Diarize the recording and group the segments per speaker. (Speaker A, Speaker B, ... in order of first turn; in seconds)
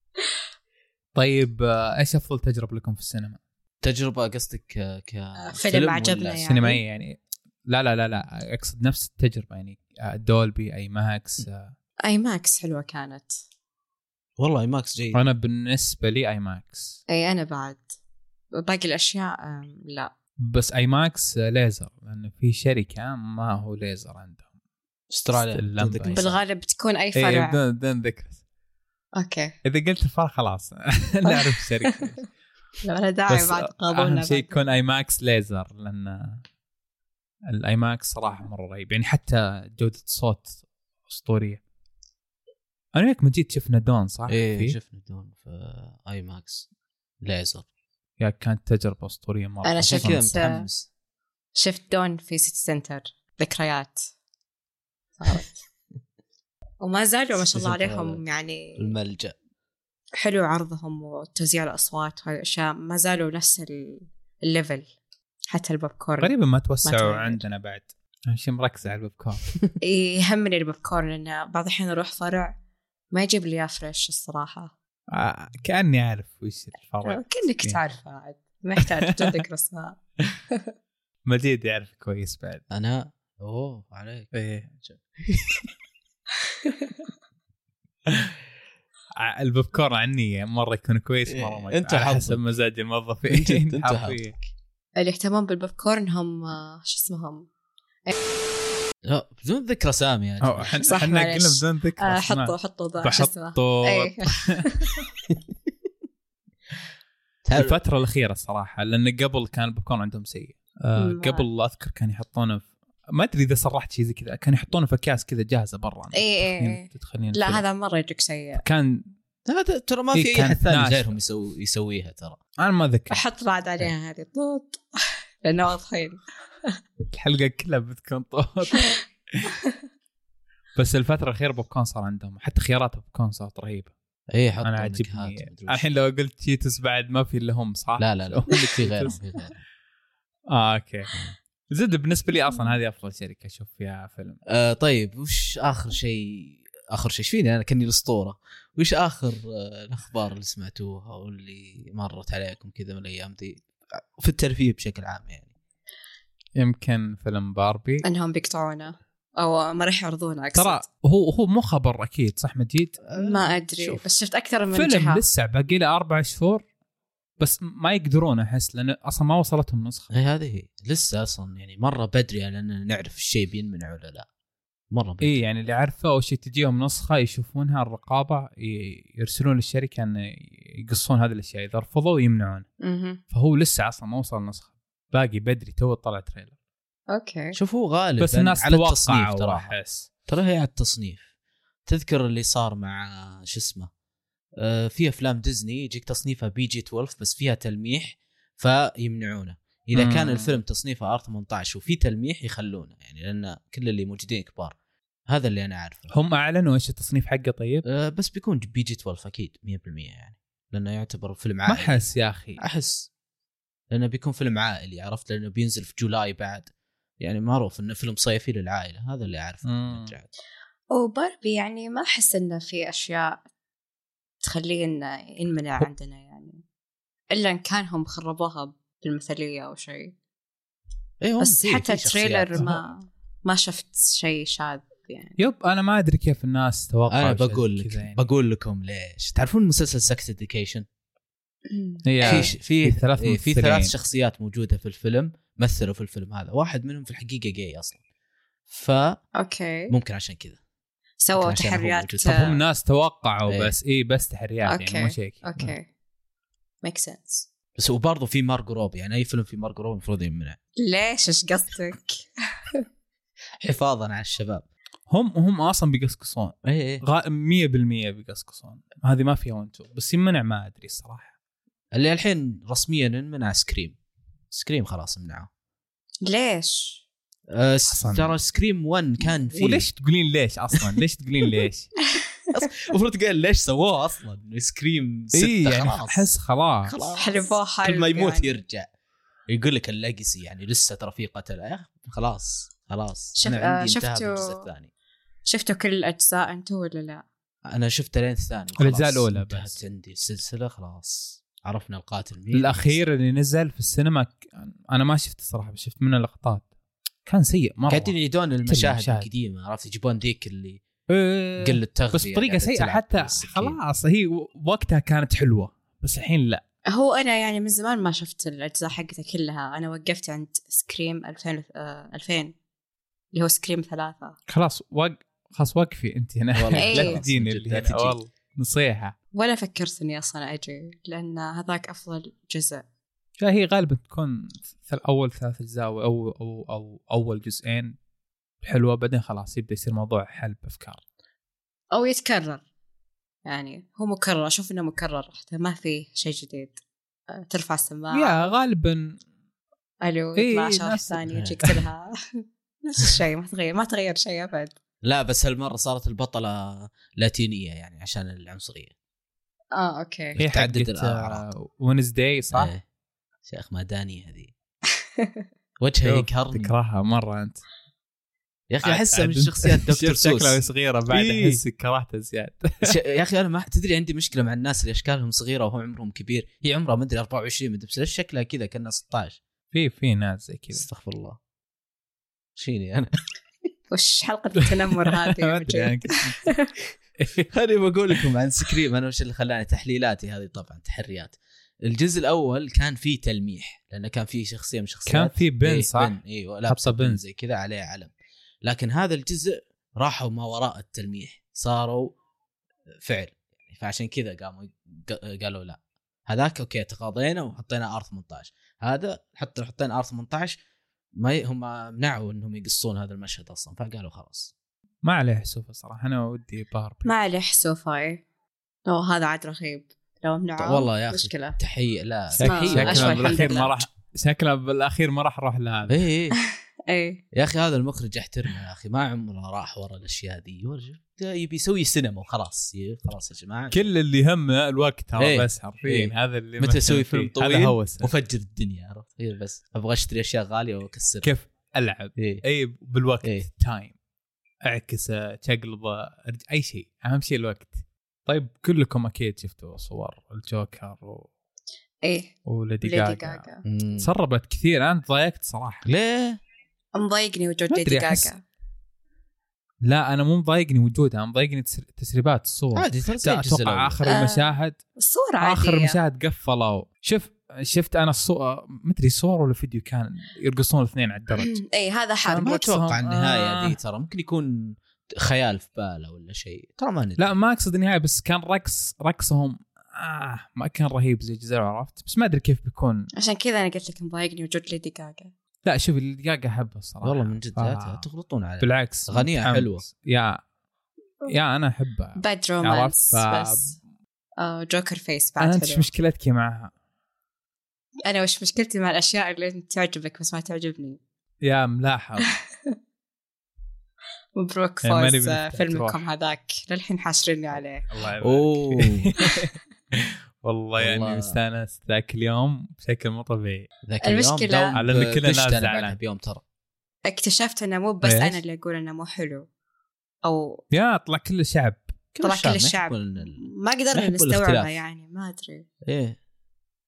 Speaker A: 1.1-3.4, 6.4-11.7, 15.1-17.0, 20.4-24.4, 25.3-26.2, 27.1-28.4, 29.6-32.2, 33.3-36.4, 37.5-40.6, 41.1-41.6, 42.9-44.8, 48.2-50.4, 66.2-69.5, 75.1-77.8, 78.8-79.4, 81.3-82.6, 84.3-84.7, 89.2-94.4, 100.4-104.6, 107.5-117.6, 118.6-119.1, 120.1-121.1, 122.6-123.2, 127.1-129.0, 130.8-133.9, 134.6-139.2, 140.5-141.1, 141.7-144.4, 156.6-158.0, 160.5-163.0, 164.7-166.6, 167.4-170.2, 175.2-182.6, 183.3-186.5, 188.2-190.1, 199.9-200.6, 206.1-207.8, 211.7-212.6, 219.6-220.1, 235.4-238.2, 242.0-243.9, 252.2-255.4, 265.1-271.3, 277.9-278.3, 279.5-281.9, 285.3-287.0, 298.8-299.8, 302.5-306.6, 307.2-308.1, 308.6-309.3, 311.1-316.6, 324.5-329.1, 333.4-338.0, 338.6-341.0, 348.1-349.2, 350.4-351.8, 360.4-362.7, 366.0-367.6, 368.8-372.9, 379.7-380.9, 385.1-386.4, 395.1-397.2, 415.0-417.1, 422.4-426.0, 433.7-438.1, 441.2-443.9, 444.6-451.3, 452.4-453.4, 454.0-455.9, 457.7-458.3, 459.8-464.8, 465.4-471.6, 472.2-473.8, 477.2-483.1, 485.6-488.1, 488.6-490.4, 491.2-493.7, 495.4-496.7, 501.4-502.3, 504.8-506.0, 507.9-513.7, 514.7-516.0, 518.0-518.4, 520.7-521.9
Speaker B: 3.8-6.5, 14.4-15.2, 25.1-26.4, 44.3-46.6, 47.2-47.6, 49.8-50.9, 57.5-58.2, 58.8-59.4, 82.7-85.7, 91.3-92.4, 93.3-94.4, 99.0-101.0, 107.4-107.8, 119.5-122.4, 134.3-135.9, 138.0-139.6, 144.5-155.5, 163.0-164.0, 170.1-174.3, 174.9-175.4, 187.5-189.7, 190.3-191.2, 191.8-193.9, 194.6-204.7, 205.3-206.1, 207.8-212.1, 212.6-213.1, 213.9-216.7, 217.2-220.3, 231.2-232.7, 237.1-240.8, 242.2-248.0, 248.7-249.2, 249.9-250.6, 251.3-252.6, 253.5-253.7, 257.8-260.6, 263.6-264.6, 266.6-267.0, 271.9-274.0, 274.5-275.5, 277.5-279.9, 282.5-286.3, 286.9-288.9, 289.5-294.9, 297.7-303.0, 307.9-310.8, 311.6-313.8, 326.5-328.1, 351.3-351.5, 355.0-358.9, 360.4-361.4, 362.5-362.8, 363.4-364.5, 365.8-366.7, 368.7-371.6, 372.8-379.4, 380.7-381.4, 382.6-383.1, 387.4-398.1, 398.6-402.1, 403.0-410.6, 411.2-414.5, 420.6-423.7, 425.9-426.4, 427.3-433.9, 435.2-441.3, 442.2-442.4, 453.6-454.1, 455.8-456.4, 462.7-464.1, 472.4-477.3, 487.0-489.8, 508.2-509.1, 510.8-511.4, 513.8-516.4, 522.1-524.7, 525.9-526.2
Speaker C: 5.4-6.8, 12.0-13.4, 17.1-17.9, 18.5-20.1, 26.1-27.6, 29.1-29.5, 31.3-32.1, 32.8-34.6, 49.6-50.6, 51.5-54.0, 55.2-55.6, 56.8-58.8, 60.2-64.9, 65.5-66.3, 66.8-67.4, 69.8-72.5, 73.1-74.7, 77.0-80.0, 86.6-86.9, 95.0-97.5, 100.8-105.1, 111.0-111.5, 116.1-118.6, 123.1-126.8, 158.0-160.8, 163.2-165.2, 182.8-183.2, 187.1-187.6, 220.9-223.4, 224.4-226.6, 227.3-230.1, 231.4-235.4, 241.7-242.5, 249.3-249.9, 251.2-252.6, 254.7-255.9, 256.8-257.4, 260.8-262.8, 276.2-277.0, 287.1-288.6, 293.4-294.6, 295.5-297.2, 316.9-322.5, 323.3-324.4, 326.8-327.2, 329.3-332.8, 341.9-342.6, 343.4-346.8, 347.3-348.5, 350.0-352.1, 352.8-354.7, 359.7-360.4, 365.0-365.4, 383.9-386.7, 417.0-418.2, 418.9-421.6, 422.4-423.8, 426.4-427.2, 452.0-453.6, 456.9-458.4, 464.1-466.0, 471.4-472.8, 483.1-485.3, 492.2-493.7, 494.4-495.9, 498.0-501.0, 504.4-507.8, 514.0-514.8, 517.0-519.5, 520.2-520.6, 522.2-525.6